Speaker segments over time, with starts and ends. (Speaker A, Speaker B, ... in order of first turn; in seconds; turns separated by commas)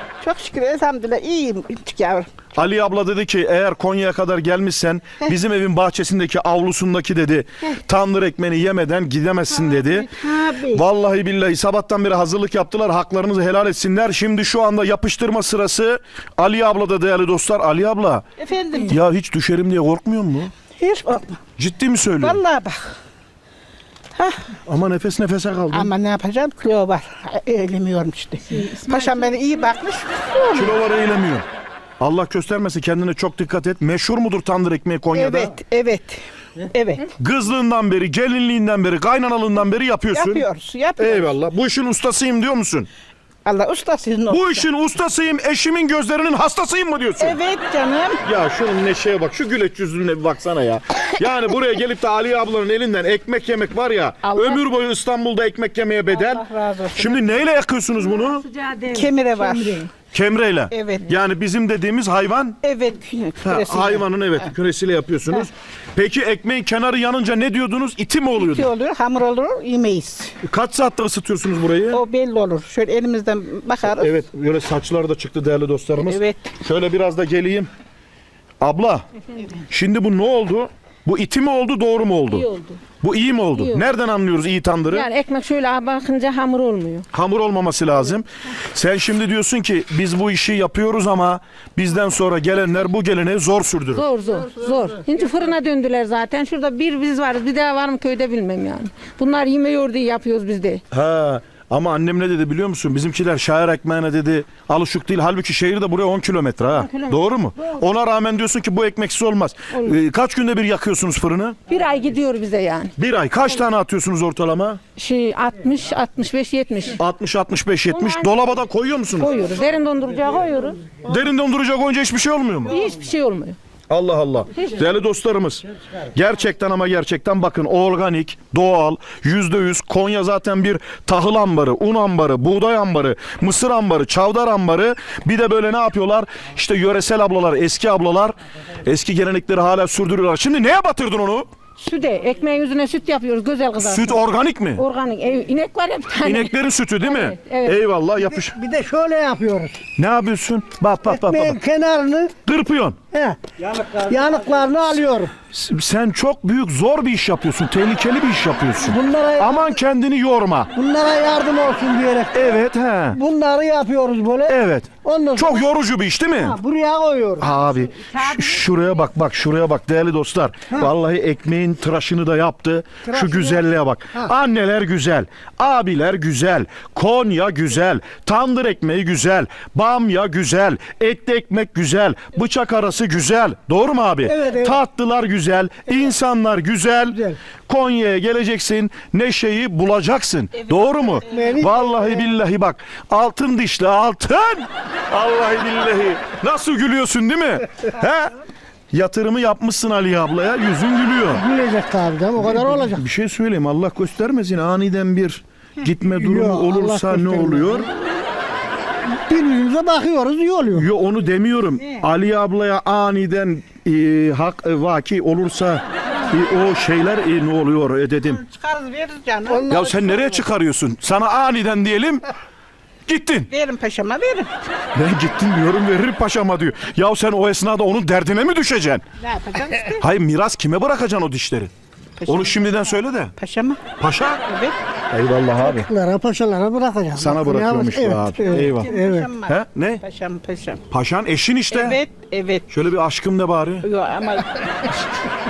Speaker A: 0.2-2.3, Speaker B: 2.5-18.2, Speaker A: 9.6-10.8, Speaker A: 18.4-18.9, Speaker B: 18.9-20.5, Speaker A: 20.8-21.4, Speaker B: 21.6-22.4, Speaker A: 22.2-22.9, Speaker A: 24.1-24.5, Speaker B: 24.6-25.9, Speaker A: 25.7-30.7, Speaker B: 30.5-31.4, Speaker B: 32.0-35.5, Speaker A: 35.1-37.1, Speaker B: 37.1-40.4, Speaker A: 40.1-41.4, Speaker B: 41.0-42.9, Speaker A: 43.4-44.6, Speaker B: 44.3-47.4, Speaker A: 47.2-48.2, Speaker B: 48.2-56.4, Speaker C: 54.2-54.6, Speaker A: 56.1-57.3, Speaker B: 57.0-58.5, Speaker C: 58.0-59.9, Speaker A: 58.9-59.9, Speaker B: 60.1-62.6, Speaker A: 60.7-61.1, Speaker A: 62.6-64.0, Speaker B: 63.4-68.7, Speaker A: 68.4-70.3, Speaker B: 70.4-72.0, Speaker A: 71.9-74.2, Speaker B: 73.9-77.7, Speaker A: 76.0-76.4, Speaker B: 78.6-79.0, Speaker B: 79.7-82.5, Speaker C: 82.3-82.8, Speaker B: 83.0-85.1, Speaker C: 83.5-83.9, Speaker C: 84.9-87.0, Speaker B: 87.1-94.0, Speaker C: 93.9-100.8, Speaker B: 100.9-111.6, Speaker C: 106.8-107.8, Speaker C: 111.7-112.9, Speaker B: 113.0-114.8, Speaker C: 115.0-117.0, Speaker B: 117.0-119.3, Speaker C: 117.9-118.4, Speaker C: 119.2-120.9, Speaker B: 121.0-122.8, Speaker C: 122.7-123.6, Speaker B: 123.9-141.5, Speaker C: 141.8-144.2, Speaker B: 143.8-144.8, Speaker C: 144.8-147.8, Speaker B: 146.2-148.6, Speaker D: 148.4-149.8, Speaker B: 150.0-151.6, Speaker D: 151.0-152.3, Speaker B: 152.4-153.0, Speaker D: 153.1-155.3, Speaker B: 155.5-160.7, Speaker D: 158.8-159.7, Speaker D: 160.7-162.6, Speaker B: 162.3-163.2, Speaker D: 163.1-165.6, Speaker B: 164.4-166.6, Speaker D: 166.4-167.5, Speaker B: 167.4-198.3, Speaker D: 173.1-173.6, Speaker D: 184.3-184.8, Speaker A: 190.6-191.7, Speaker D: 191.3-192.3, Speaker B: 198.9-201.4, Speaker D: 201.3-203.0, Speaker B: 202.4-207.9, Speaker D: 206.2-207.9, Speaker D: 209.1-210.8, Speaker B: 210.7-218.4, Speaker A: 218.2-219.9, Speaker D: 219.5-220.2, Speaker B: 219.7-222.2, Speaker B: 223.1-223.5, Speaker A: 223.5-224.5, Speaker B: 224.9-229.0, Speaker A: 229.2-230.0, Speaker B: 230.0-231.7, Speaker A: 232.2-232.7, Speaker B: 232.3-233.3, Speaker A: 233.4-233.8, Speaker B: 234.0-234.4, Speaker A: 234.4-234.8, Speaker B: 235.1-235.9, Speaker D: 235.6-239.3, Speaker B: 237.2-240.0, Speaker A: 238.4-240.8, Speaker B: 240.9-242.0, Speaker A: 241.7-242.7, Speaker B: 242.7-243.9, Speaker A: 243.8-245.0